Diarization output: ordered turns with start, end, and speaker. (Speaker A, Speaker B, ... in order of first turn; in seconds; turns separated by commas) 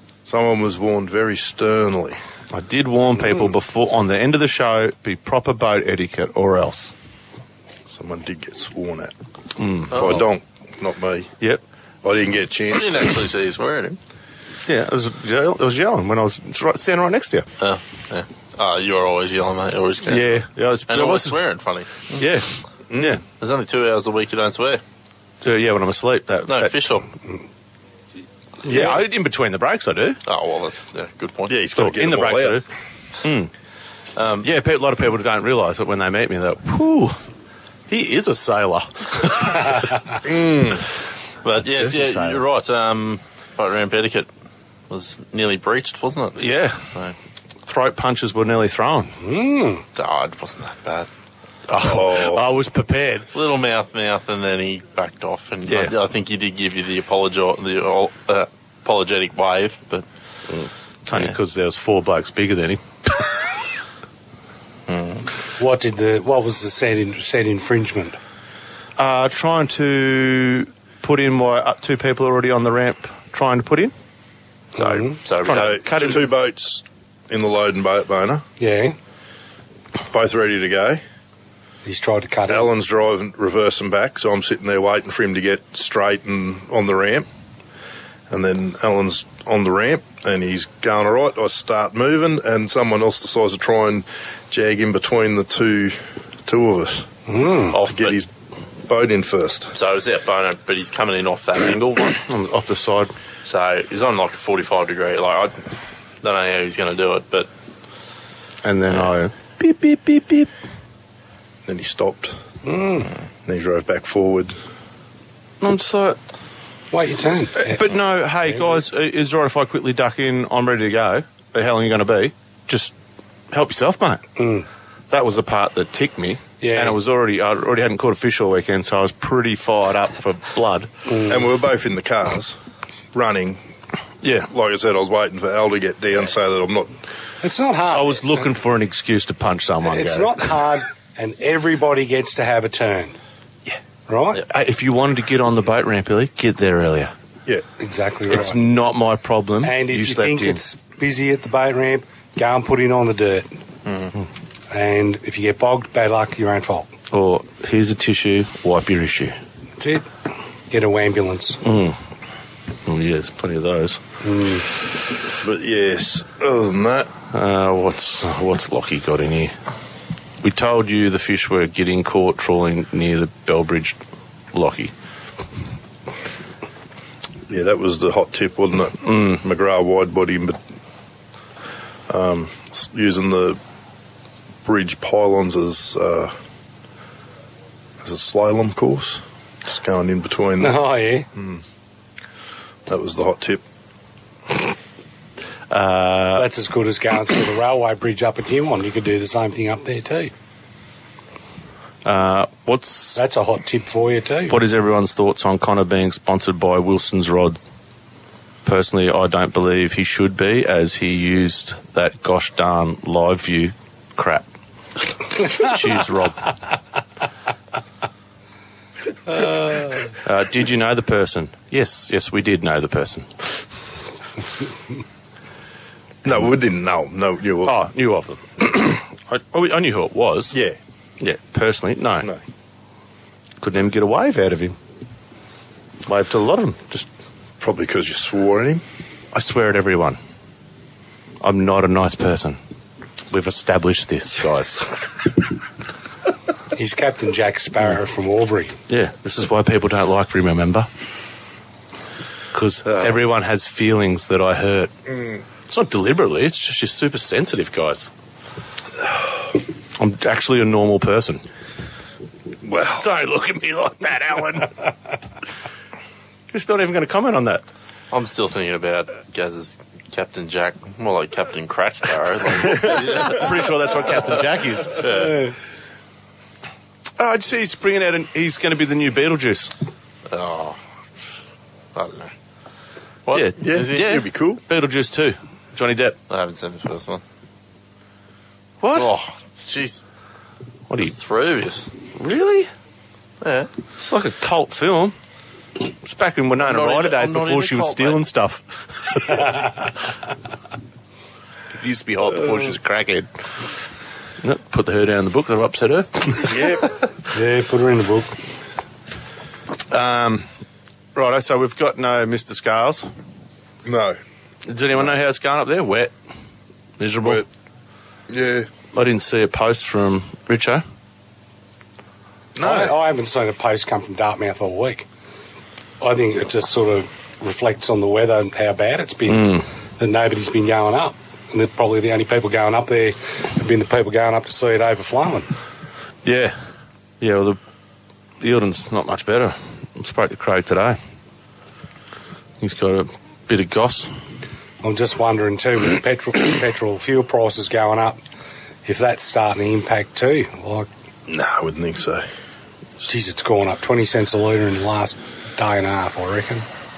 Speaker A: 0.2-2.2, Speaker B: 2.5-6.9, Speaker A: 7.9-9.1, Speaker B: 9.6-10.2, Speaker A: 9.9-11.3, Speaker C: 9.9-10.2, Speaker A: 12.0-13.1, Speaker C: 12.7-14.0, Speaker B: 14.7-17.4, Speaker C: 17.6-22.2, Speaker B: 20.1-21.4, Speaker B: 22.2-23.2, Speaker A: 22.9-23.2, Speaker C: 23.4-24.8, Speaker B: 25.4-26.8, Speaker C: 26.4-27.1, Speaker B: 28.6-30.2, Speaker C: 30.2-31.6, Speaker A: 31.5-32.6, Speaker B: 31.8-32.6, Speaker B: 33.2-33.5, Speaker C: 34.1-34.5, Speaker B: 34.4-37.2, Speaker B: 37.9-40.2, Speaker A: 40.2-40.8, Speaker C: 41.4-44.3, Speaker B: 41.6-42.4, Speaker C: 44.9-47.1, Speaker B: 46.4-46.8, Speaker B: 47.6-49.1, Speaker D: 49.2-49.8, Speaker C: 50.0-51.1, Speaker B: 51.7-53.3, Speaker A: 51.8-52.4, Speaker C: 53.3-60.0, Speaker B: 55.7-56.0, Speaker B: 60.5-63.3, Speaker C: 64.9-65.3, Speaker D: 65.6-68.2, Speaker B: 69.0-73.9, Speaker D: 74.8-75.2, Speaker C: 74.8-76.2, Speaker B: 75.4-76.2, Speaker A: 75.5-78.4, Speaker D: 78.6-79.0, Speaker A: 80.1-81.0, Speaker D: 81.8-82.7, Speaker A: 82.5-87.3, Speaker A: 88.3-97.1, Speaker D: 97.3-97.8, Speaker C: 97.7-98.2, Speaker A: 97.8-98.3, Speaker A: 98.9-99.7, Speaker C: 99.7-102.1, Speaker B: 101.7-103.1, Speaker C: 103.4-105.6, Speaker C: 106.2-107.5, Speaker B: 108.6-110.5, Speaker A: 111.6-112.4, Speaker D: 112.6-113.1, Speaker A: 113.5-114.5, Speaker B: 115.6-116.2, Speaker D: 116.9-117.8, Speaker B: 117.6-122.9, Speaker B: 123.5-124.2, Speaker D: 124.4-124.6, Speaker B: 125.1-130.9, Speaker D: 126.6-127.0, Speaker D: 131.1-131.5, Speaker A: 131.3-132.6, Speaker A: 133.1-133.6, Speaker B: 134.2-134.5, Speaker A: 134.4-136.9, Speaker D: 137.4-138.5, Speaker B: 137.9-140.4, Speaker D: 139.8-143.2, Speaker D: 144.1-144.4, Speaker B: 144.4-147.1, Speaker D: 147.8-148.6, Speaker B: 148.3-150.6, Speaker D: 149.6-153.5, Speaker D: 154.7-156.9, Speaker B: 157.1-159.3, Speaker D: 159.8-160.1, Speaker D: 160.7-161.6, Speaker B: 161.6-162.0, Speaker B: 162.8-164.0, Speaker D: 164.2-164.6, Speaker A: 165.4-167.1, Speaker B: 167.3-169.5, Speaker B: 170.4-174.0, Speaker B: 174.5-174.9, Speaker A: 177.5-180.6, Speaker B: 179.1-179.4, Speaker A: 182.1-183.6, Speaker A: 184.6-186.3, Speaker A: 188.0-191.6, Speaker D: 190.6-191.3, Speaker A: 192.9-193.6, Speaker B: 195.7-196.5, Speaker D: 196.3-200.3, Speaker B: 202.0-203.2, Speaker D: 203.2-204.6, Speaker B: 204.5-207.6, Speaker B: 208.6-214.5, Speaker B: 215.4-216.6, Speaker D: 219.3-219.9, Speaker B: 220.1-223.6, Speaker A: 226.2-227.8, Speaker B: 227.6-230.6, Speaker A: 230.5-230.8, Speaker B: 231.2-232.3, Speaker B: 233.6-234.8, Speaker B: 236.1-237.1, Speaker A: 237.6-238.8, Speaker B: 239.3-240.2, Speaker B: 241.4-242.6, Speaker B: 243.3-245.0, Speaker D: 246.7-248.8, Speaker B: 248.9-250.9, Speaker B: 252.5-254.9, Speaker A: 252.8-253.2, Speaker B: 255.6-258.1, Speaker B: 260.0-261.4, Speaker A: 262.6-263.1, Speaker B: 263.0-264.9, Speaker B: 266.5-267.6, Speaker C: 268.1-274.2, Speaker B: 272.6-275.2, Speaker C: 274.9-275.4, Speaker B: 277.2-279.7, Speaker C: 280.3-280.8, Speaker C: 281.9-282.3, Speaker C: 283.2-284.1, Speaker B: 283.3-286.1, Speaker A: 283.6-284.6, Speaker C: 286.3-287.2, Speaker B: 288.8-289.1, Speaker C: 288.9-290.0, Speaker C: 291.0-291.9, Speaker B: 292.1-292.7, Speaker C: 293.4-293.7, Speaker B: 294.0-295.1, Speaker B: 296.0-299.7, Speaker C: 296.6-298.2, Speaker B: 301.7-303.3, Speaker B: 304.4-306.7, Speaker A: 306.5-306.9, Speaker D: 307.3-308.3, Speaker B: 309.9-310.5, Speaker B: 311.1-313.1, Speaker A: 313.8-314.2, Speaker B: 314.7-316.1, Speaker B: 317.0-317.4, Speaker A: 318.3-318.7, Speaker B: 318.9-320.8, Speaker A: 322.6-322.9, Speaker D: 322.6-325.1, Speaker D: 326.0-335.5, Speaker B: 329.3-329.6, Speaker B: 336.2-336.6, Speaker B: 337.2-337.6, Speaker B: 338.4-341.0, Speaker B: 342.6-344.1, Speaker D: 344.8-348.2, Speaker D: 348.8-350.9, Speaker A: 351.3-352.2, Speaker D: 353.0-356.6